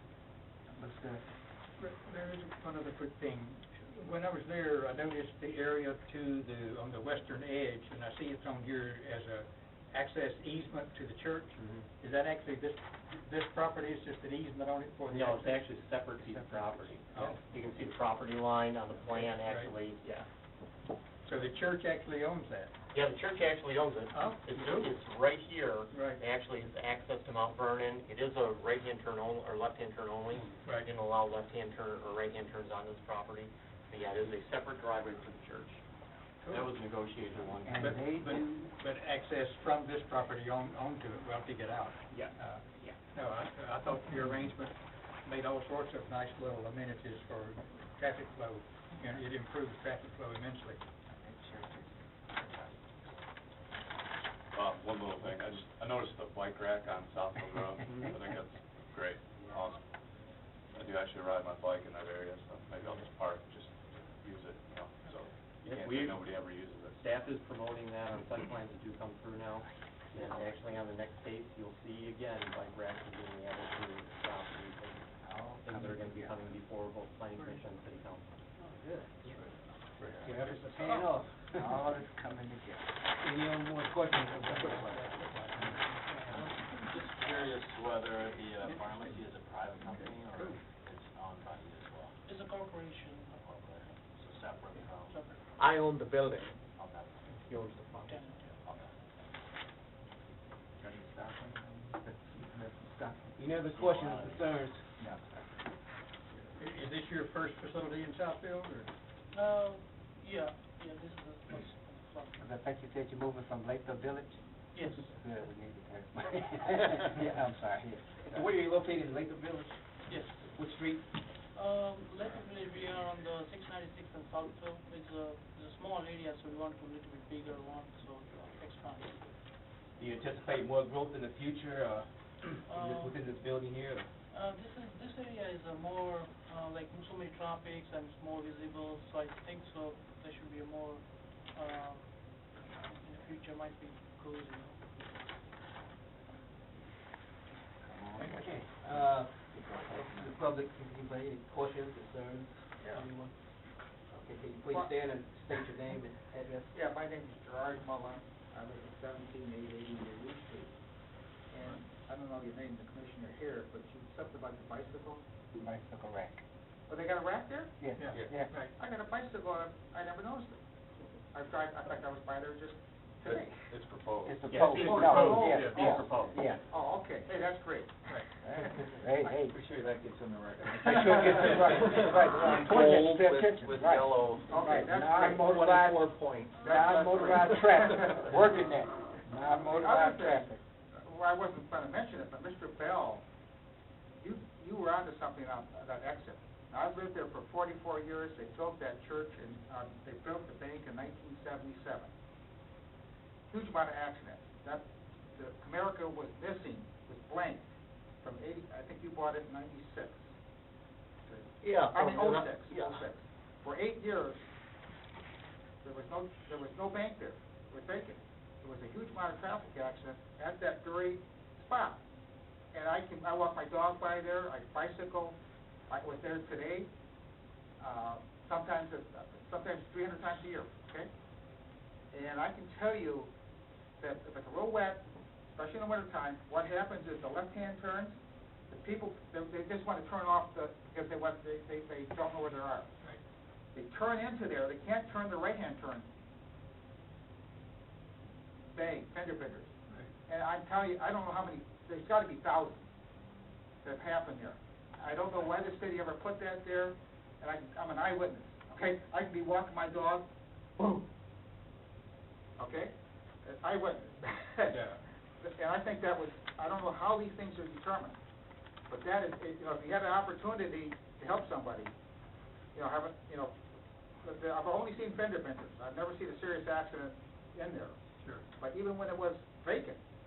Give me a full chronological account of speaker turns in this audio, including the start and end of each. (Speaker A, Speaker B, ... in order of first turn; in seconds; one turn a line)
Speaker A: 0.7-1.2
Speaker B: 1.8-15.6
Speaker C: 11.6-11.9
Speaker C: 15.1-20.3
Speaker B: 16.2-17.6
Speaker B: 18.9-19.7
Speaker B: 21.2-22.7
Speaker C: 22.9-35.8
Speaker B: 24.1-24.9
Speaker B: 25.9-26.2
Speaker B: 30.6-30.9
Speaker C: 36.5-38.0
Speaker A: 37.6-38.5
Speaker B: 37.8-50.8
Speaker C: 42.1-43.0
Speaker A: 51.2-52.7
Speaker D: 54.5-60.0
Speaker D: 60.7-67.2
Speaker C: 65.6-66.3
Speaker C: 67.0-78.2
Speaker A: 75.2-76.5
Speaker B: 80.0-80.8
Speaker E: 80.2-81.8
Speaker A: 80.9-82.9
Speaker E: 83.2-86.0
Speaker F: 86.2-87.6
Speaker G: 86.3-92.1
Speaker F: 92.2-93.5
Speaker G: 93.4-95.3
Speaker F: 95.0-95.4
Speaker C: 95.6-96.6
Speaker G: 96.7-97.4
Speaker C: 97.4-98.2
Speaker F: 98.1-98.5
Speaker H: 101.3-101.8
Speaker A: 102.0-103.4
Speaker E: 103.3-104.8
Speaker G: 103.6-104.6
Speaker B: 106.6-108.9
Speaker F: 109.3-112.4
Speaker A: 112.4-118.5
Speaker F: 114.7-115.2
Speaker E: 117.1-117.5
Speaker E: 118.2-121.1
Speaker F: 120.1-120.5
Speaker F: 121.5-129.4
Speaker E: 129.9-134.1
Speaker F: 132.6-133.3
Speaker F: 134.3-145.3
Speaker G: 147.9-150.3
Speaker E: 148.2-153.3
Speaker E: 153.9-156.7
Speaker H: 154.7-154.9
Speaker H: 156.7-160.7
Speaker H: 161.5-165.2
Speaker A: 165.6-166.4
Speaker H: 166.9-167.9
Speaker A: 167.8-168.5
Speaker B: 167.9-168.7
Speaker H: 168.7-170.6
Speaker H: 171.3-173.7
Speaker D: 173.2-175.9
Speaker A: 174.2-176.6
Speaker C: 174.5-176.3
Speaker H: 174.7-175.9
Speaker H: 176.6-179.4
Speaker A: 178.4-179.6
Speaker E: 179.5-182.8
Speaker A: 180.8-186.1
Speaker C: 183.0-184.4
Speaker H: 184.5-188.4
Speaker F: 186.6-187.0
Speaker A: 186.6-190.6
Speaker H: 189.5-193.2
Speaker H: 194.2-202.1
Speaker H: 203.5-207.6
Speaker H: 208.2-210.2
Speaker H: 211.3-214.5
Speaker E: 211.6-213.0
Speaker H: 215.8-222.0
Speaker H: 222.7-225.4
Speaker H: 225.9-226.9
Speaker H: 227.8-231.1
Speaker H: 232.1-233.3
Speaker H: 234.0-238.2
Speaker H: 238.7-242.9
Speaker H: 243.7-246.1
Speaker H: 248.7-249.7
Speaker H: 250.2-252.9
Speaker H: 253.8-260.2
Speaker H: 262.6-262.9
Speaker H: 263.4-268.1
Speaker B: 264.7-265.0
Speaker H: 268.9-271.9
Speaker H: 272.7-273.6
Speaker H: 274.2-277.9
Speaker H: 278.6-280.0